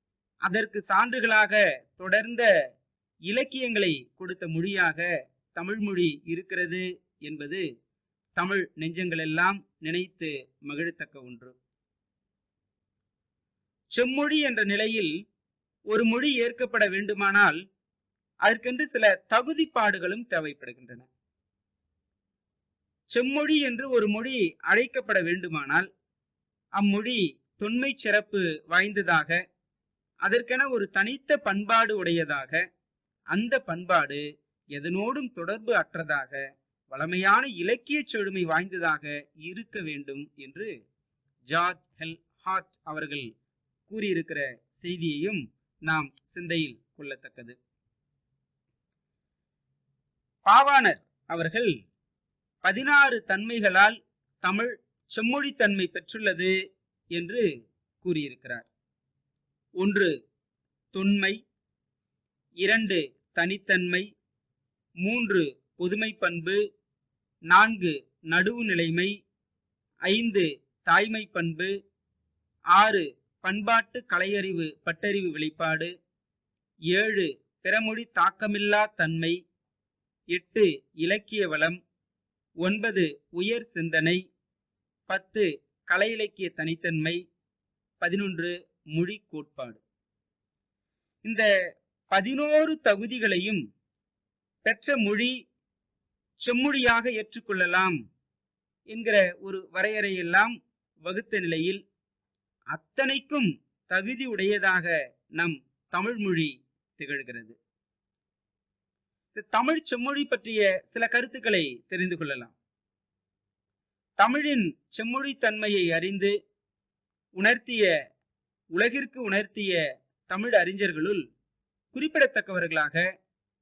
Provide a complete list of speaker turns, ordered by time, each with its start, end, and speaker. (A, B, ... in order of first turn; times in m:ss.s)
0:00.4-0:02.5 A
0:03.3-0:07.6 A
0:08.4-0:11.6 A
0:13.9-0:15.1 A
0:15.9-0:17.6 A
0:18.4-0:21.1 A
0:23.1-0:25.9 A
0:26.8-0:29.4 A
0:30.2-0:32.6 A
0:33.3-0:34.2 A
0:34.7-0:40.7 A
0:41.5-0:43.3 A
0:43.9-0:47.6 A
0:50.4-0:51.7 A
0:52.6-0:56.5 A
0:57.1-0:57.4 A
0:58.0-0:58.7 A
0:59.8-1:00.1 A
1:00.9-1:01.4 A
1:02.6-1:04.1 A
1:05.0-1:06.6 A
1:07.5-1:09.1 A
1:10.1-1:11.7 A
1:12.7-1:15.9 A
1:16.9-1:19.4 A
1:20.3-1:21.8 A
1:22.6-1:24.2 A
1:25.1-1:27.2 A
1:28.0-1:29.8 A
1:32.1-1:33.6 A
1:34.6-1:35.3 A
1:36.4-1:38.0 A
1:38.9-1:40.5 A
1:41.0-1:41.8 A
1:42.7-1:47.6 A
1:49.3-1:52.5 A
1:54.2-1:56.3 A
1:57.4-1:57.9 A
1:58.7-2:01.2 A
2:01.9-2:03.0 A